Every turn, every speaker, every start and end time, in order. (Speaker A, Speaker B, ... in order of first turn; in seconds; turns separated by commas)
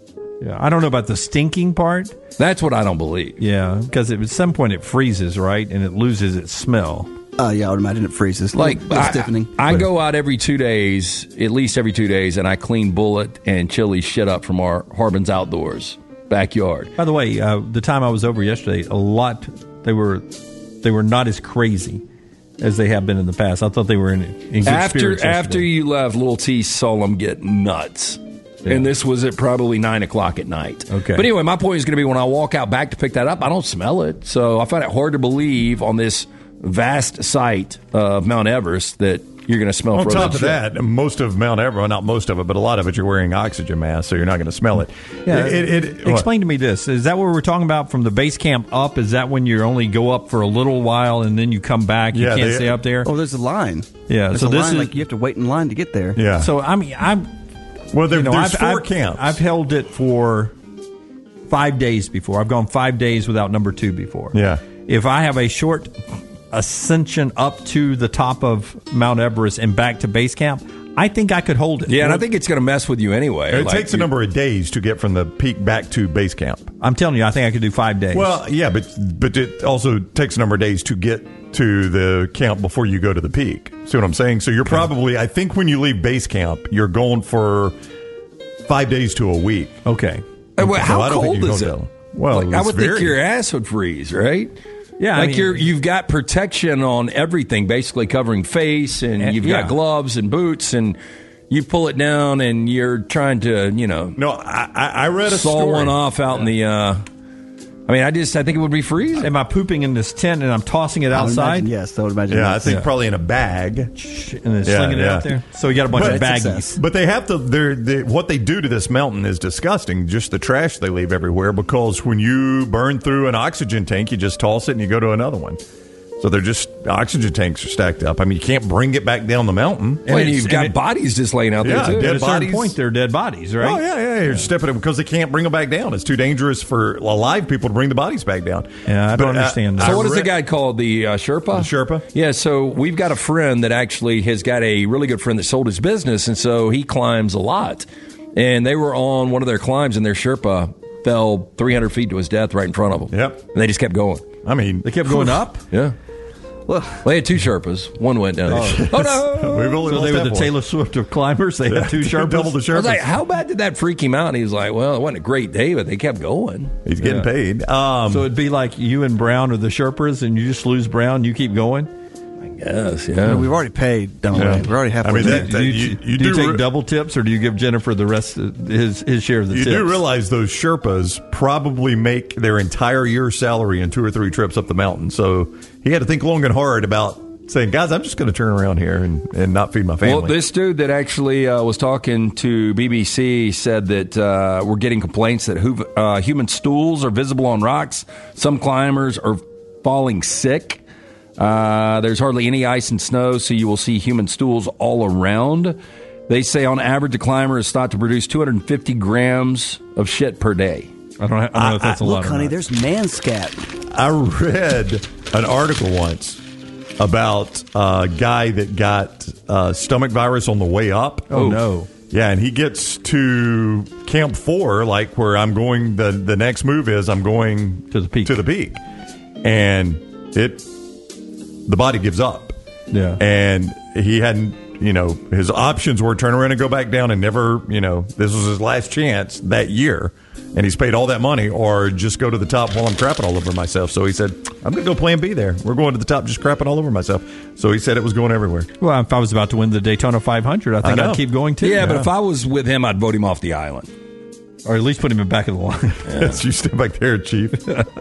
Speaker A: 0.4-2.1, Speaker B: 2.4-3.4, Speaker A: 3.4-7.1, Speaker C: 7.4-9.5, Speaker B: 8.5-16.9, Speaker A: 17.0-22.0, Speaker A: 22.6-25.7, Speaker B: 24.6-40.6, Speaker A: 30.9-31.3, Speaker D: 39.9-46.3, Speaker A: 45.3-53.1, Speaker D: 52.1-52.8, Speaker C: 53.0-56.2, Speaker A: 54.1-55.0, Speaker D: 56.1-56.5, Speaker A: 56.4-57.3, Speaker D: 57.9-59.4, Speaker A: 58.1-60.5, Speaker A: 61.5-64.3, Speaker D: 64.3-64.6, Speaker A: 64.9-65.9, Speaker A: 66.5-72.2, Speaker B: 71.9-74.1, Speaker D: 73.5-76.7, Speaker A: 76.8-78.4, Speaker D: 78.1-87.7, Speaker D: 88.7-89.8, Speaker A: 89.8-90.2, Speaker B: 90.6-91.8, Speaker D: 90.6-93.2, Speaker B: 92.3-94.5, Speaker A: 95.0-95.7, Speaker B: 95.1-101.0, Speaker A: 99.2-99.7, Speaker B: 101.5-104.2, Speaker D: 104.2-106.0, Speaker B: 105.3-107.0, Speaker B: 107.9-109.3, Speaker A: 109.2-111.7, Speaker C: 111.1-112.8, Speaker D: 112.3-113.9, Speaker A: 112.6-112.9, Speaker A: 113.9-116.8, Speaker D: 114.7-115.3, Speaker D: 115.9-125.6, Speaker C: 115.9-116.7, Speaker D: 126.2-130.2, Speaker A: 130.1-130.8, Speaker B: 130.1-132.5, Speaker D: 131.6-132.7, Speaker A: 131.6-134.4, Speaker D: 133.6-140.3, Speaker A: 138.9-140.0, Speaker B: 139.8-154.2, Speaker D: 141.5-142.1, Speaker D: 153.1-153.4, Speaker D: 154.4-155.4, Speaker A: 154.8-155.6, Speaker C: 156.7-157.0, Speaker B: 157.0-159.4, Speaker A: 158.5-162.6, Speaker D: 158.5-160.5, Speaker D: 161.7-163.1, Speaker B: 162.7-166.7, Speaker D: 166.8-168.3, Speaker A: 167.0-167.3, Speaker A: 168.1-171.9, Speaker B: 172.5-173.5, Speaker C: 173.2-175.5, Speaker D: 174.3-176.7, Speaker A: 175.2-180.0, Speaker D: 179.5-190.4, Speaker B: 190.0-200.8, Speaker B: 201.4-205.8, Speaker B: 206.3-210.9, Speaker A: 211.2-212.6, Speaker D: 211.6-212.0, Speaker C: 211.9-213.7, Speaker D: 213.9-216.4, Speaker D: 217.0-228.8, Speaker A: 221.3-221.9, Speaker A: 227.9-228.4, Speaker D: 229.4-230.7, Speaker D: 231.7-232.5, Speaker A: 232.9-233.2, Speaker D: 233.2-248.7, Speaker A: 248.8-252.0, Speaker D: 250.8-251.2, Speaker B: 251.6-253.9, Speaker D: 251.8-252.1, Speaker A: 254.6-256.4, Speaker D: 256.1-257.6